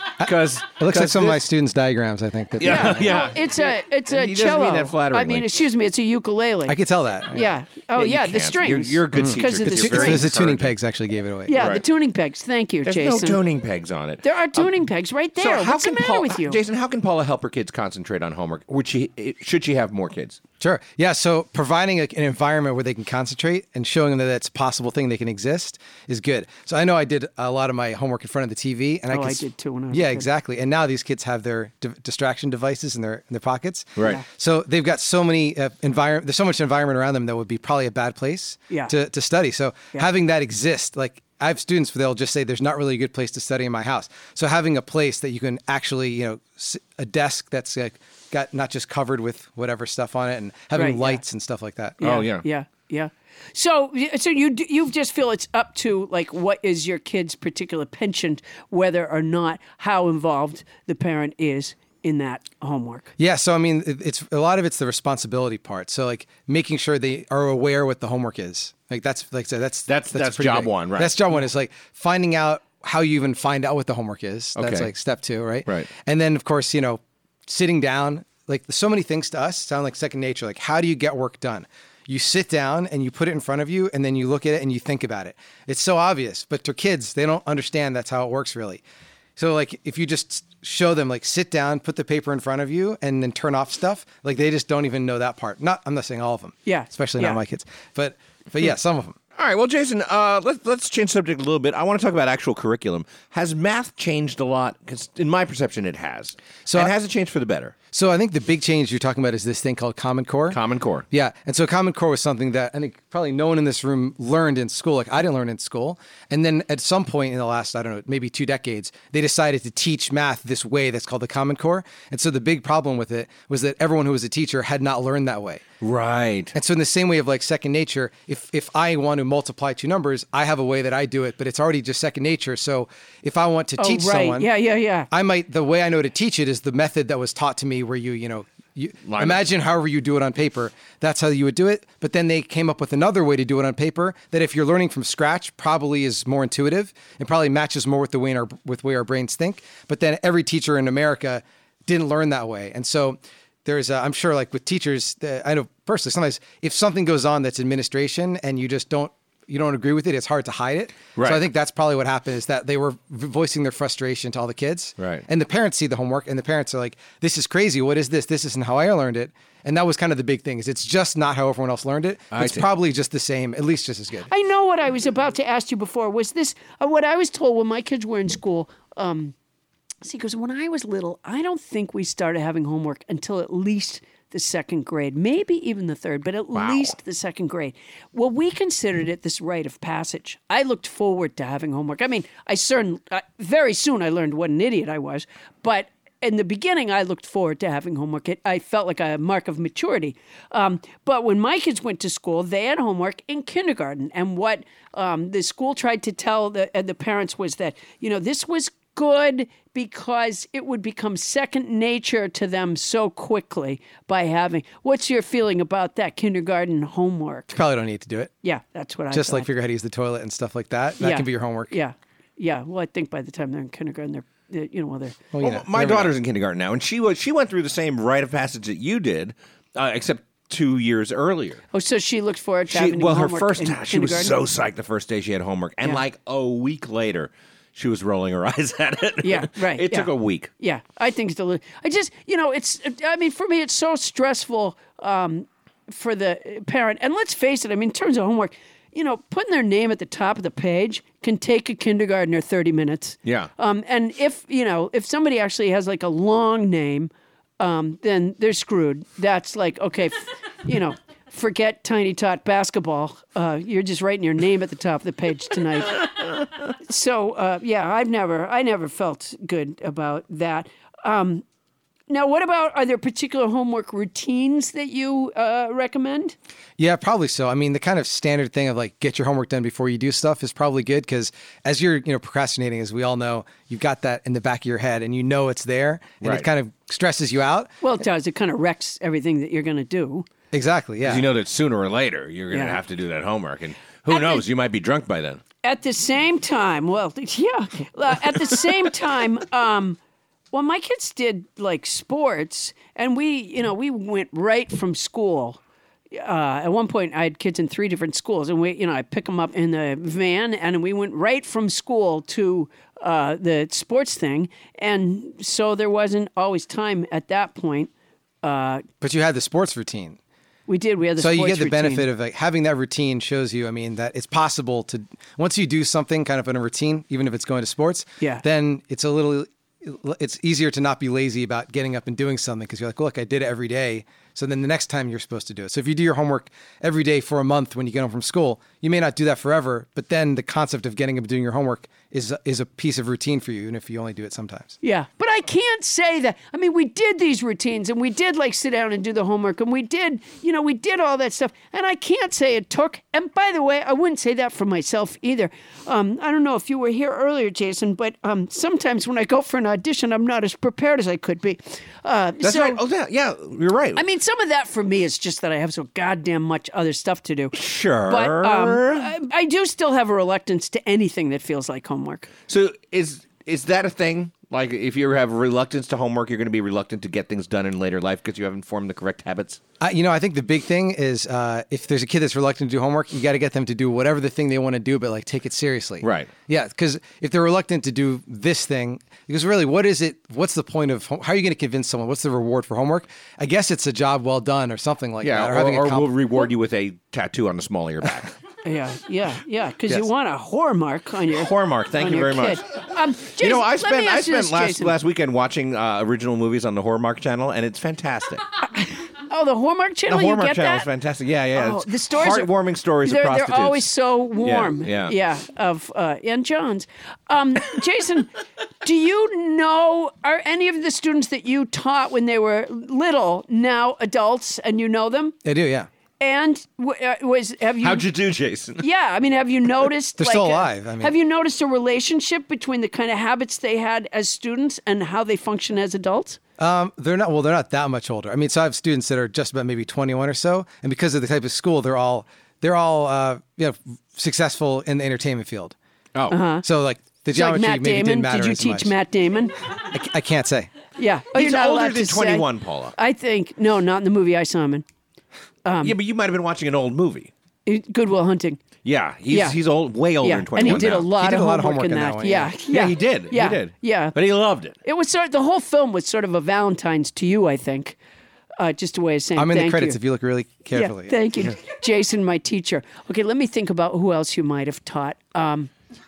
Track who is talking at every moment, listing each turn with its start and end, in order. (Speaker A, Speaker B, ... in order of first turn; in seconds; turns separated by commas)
Speaker A: 0.2-1.5, Speaker B: 0.2-3.2, Speaker A: 2.6-5.5, Speaker C: 2.6-6.8, Speaker B: 6.7-7.5, Speaker C: 7.3-10.3, Speaker A: 7.9-10.8, Speaker B: 9.2-11.8, Speaker C: 11.4-13.4, Speaker A: 11.5-11.8, Speaker A: 12.8-14.7, Speaker C: 14.2-16.6, Speaker A: 15.4-20.4, Speaker B: 20.6-52.0, Speaker C: 29.1-30.3, Speaker A: 34.0-34.2, Speaker C: 50.7-51.2, Speaker A: 52.0-52.4, Speaker C: 52.0-63.1, Speaker B: 63.2-88.8, Speaker A: 69.9-71.2, Speaker A: 74.5-74.9, Speaker B: 89.3-99.2, Speaker C: 96.7-97.4, Speaker A: 99.3-107.8, Speaker B: 106.7-106.9, Speaker B: 107.9-125.6, Speaker A: 110.5-111.0, Speaker A: 125.8-126.5, Speaker B: 126.5-134.5, Speaker C: 133.8-135.1, Speaker B: 135.1-174.3, Speaker A: 139.1-139.4, Speaker A: 161.2-161.4, Speaker A: 165.0-165.2, Speaker A: 172.3-172.7, Speaker C: 174.3-179.3, Speaker C: 180.0-217.5, Speaker A: 186.5-186.9, Speaker B: 217.5-218.3, Speaker C: 218.4-219.5, Speaker B: 219.1-221.8, Speaker C: 221.0-225.2, Speaker B: 225.3-226.1, Speaker A: 225.4-231.6, Speaker C: 231.7-234.3, Speaker A: 232.7-240.5, Speaker C: 239.2-266.1, Speaker A: 253.2-253.5, Speaker C: 266.8-271.4, Speaker C: 272.1-276.4, Speaker B: 276.8-287.7, Speaker A: 286.2-286.5, Speaker C: 287.8-290.3, Speaker B: 290.5-291.3, Speaker A: 291.0-295.4, Speaker C: 292.5-292.8, Speaker C: 294.1-294.4, Speaker C: 295.6-300.0, Speaker C: 300.5-305.6, Speaker C: 306.1-317.9, Speaker C: 318.4-318.8, Speaker B: 319.0-320.2, Speaker C: 320.7-322.1, Speaker B: 321.2-344.8, Speaker C: 344.8-362.8, Speaker A: 362.4-364.0, Speaker C: 363.9-372.3, Speaker A: 367.5-369.1, Speaker A: 372.5-379.6, Speaker B: 379.8-396.1, Speaker A: 386.0-386.3, Speaker A: 395.2-398.3, Speaker C: 398.6-404.9, Speaker A: 401.3-402.6, Speaker A: 403.3-408.4, Speaker C: 408.7-410.9, Speaker A: 410.1-413.9, Speaker C: 411.5-412.5, Speaker C: 413.0-418.3, Speaker A: 414.4-415.1, Speaker C: 418.8-425.4, Speaker B: 425.4-425.9, Speaker C: 426.2-428.1, Speaker A: 427.8-428.8, Speaker C: 428.8-436.4, Speaker B: 430.2-431.1, Speaker B: 436.6-445.8, Speaker C: 446.3-446.6, Speaker B: 446.6-448.9, Speaker C: 447.3-449.5, Speaker B: 449.9-450.7, Speaker C: 451.0-454.8, Speaker A: 451.3-452.9, Speaker C: 455.6-455.9, Speaker A: 455.8-457.3, Speaker C: 457.6-458.6, Speaker A: 458.8-461.1, Speaker C: 459.3-459.6, Speaker C: 460.2-464.1, Speaker B: 460.6-462.6, Speaker A: 462.6-464.8, Speaker C: 464.8-468.0, Speaker C: 468.6-470.0, Speaker B: 469.4-471.2, Speaker C: 470.7-475.7